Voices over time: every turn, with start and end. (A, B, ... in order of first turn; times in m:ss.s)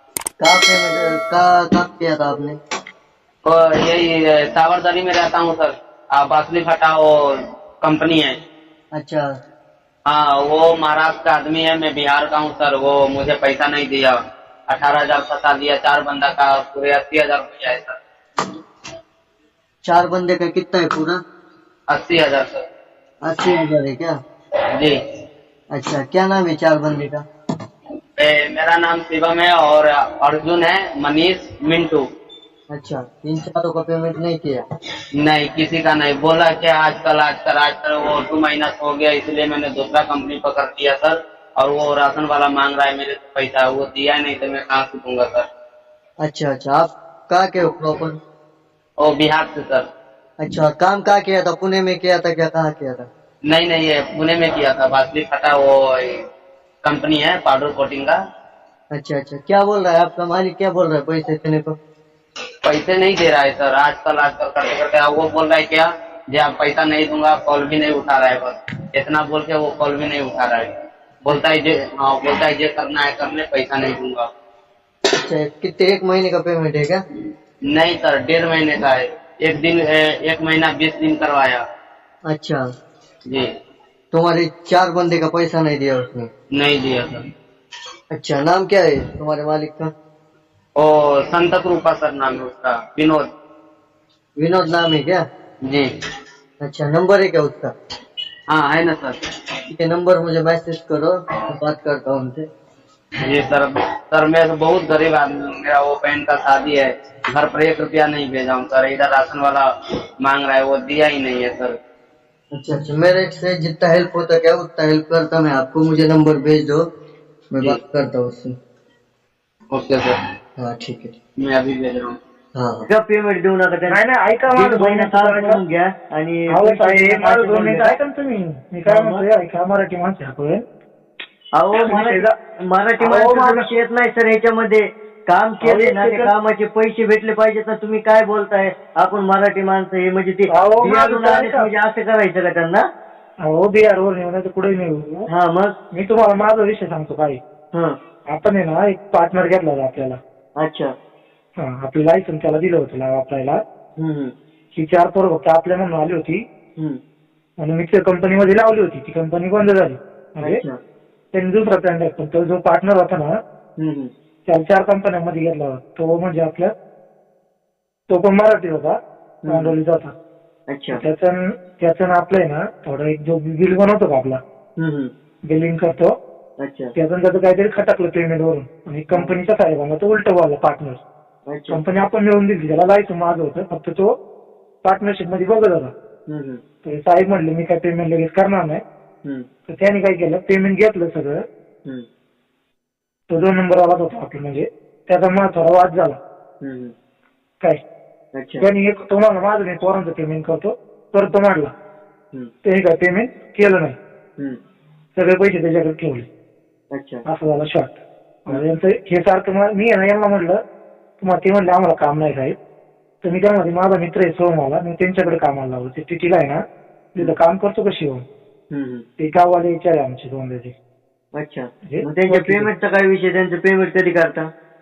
0:00.4-0:02.6 A
0:03.5-0:07.1 B
0:07.8-0:08.4 B
0:09.0-0:09.3 A
0:10.1-0:14.2 B
0:14.7-0:18.0 B
0:19.8-0:21.2 A
0:21.9-0:22.6 B
0:23.2-0:24.1 A
0:25.7-0:27.2 A
0:28.2-0:32.0 B
0:32.7-0:34.6 A
0:35.2-0:45.5 B
0:46.2-0:48.2 A
0:49.0-0:49.9 B
0:50.4-0:53.1 A
0:53.5-0:56.2 B
0:56.8-0:58.2 B
0:58.9-1:01.8 A
1:02.6-1:10.7 B
1:11.2-1:14.3 B
1:15.2-1:17.0 A
1:17.8-1:21.6 B
1:22.3-1:22.6 A
1:24.1-1:26.3 A
1:26.6-1:27.2 B
1:28.1-1:29.9 A
1:30.8-1:33.2 B
1:34.4-1:35.2 A
1:36.6-1:37.7 A
1:38.5-1:39.2 B
1:39.7-1:42.4 A
1:43.3-1:49.6 B
1:50.2-1:51.8 B
1:52.5-1:56.8 A
1:57.6-1:58.5 A
1:59.7-2:00.1 B
2:00.6-2:01.1 A
2:01.4-2:02.2 B
2:02.6-2:04.0 A
2:03.9-2:05.6 C
2:04.5-2:08.0 A
2:06.5-2:10.6 C
2:08.8-2:09.2 A
2:11.6-2:22.8 A
2:11.8-2:12.3 C
2:13.0-2:13.7 C
2:15.6-2:16.3 C
2:20.5-2:21.7 C
2:23.4-2:25.3 C
2:25.3-2:25.7 A
2:25.9-2:27.4 C
2:28.3-2:30.2 C
2:30.6-2:30.9 A
2:31.6-2:33.6 C
2:34.0-2:34.3 A
2:34.7-2:36.4 C
2:37.6-2:40.6 C
2:40.4-2:40.8 A
2:41.3-2:43.3 C
2:43.8-2:44.1 A
2:44.5-2:46.7 C
2:48.1-2:49.0 C
2:49.4-2:49.8 A
2:49.5-2:50.1 C
2:50.7-2:51.0 A
2:50.9-2:54.4 C
2:54.8-2:55.1 A
2:55.5-2:56.1 C
2:56.6-2:56.9 A
2:57.0-3:01.0 C
3:01.5-3:01.8 A
3:01.7-3:04.1 C
3:04.8-3:05.9 C
3:06.3-3:06.6 A
3:06.8-3:08.8 C
3:09.7-3:11.4 C
3:13.3-3:16.2 C
3:16.6-3:16.9 A
3:18.4-3:18.6 A
3:18.6-3:21.7 C
3:22.6-3:24.0 C
3:25.2-3:26.3 C
3:26.9-3:27.2 A
3:27.3-3:30.6 C
3:31.2-3:32.6 C
3:33.2-3:36.6 C
3:37.2-3:38.2 C
3:38.7-3:39.0 A
3:39.2-3:40.7 C
3:41.4-3:44.5 A
3:41.9-3:42.7 C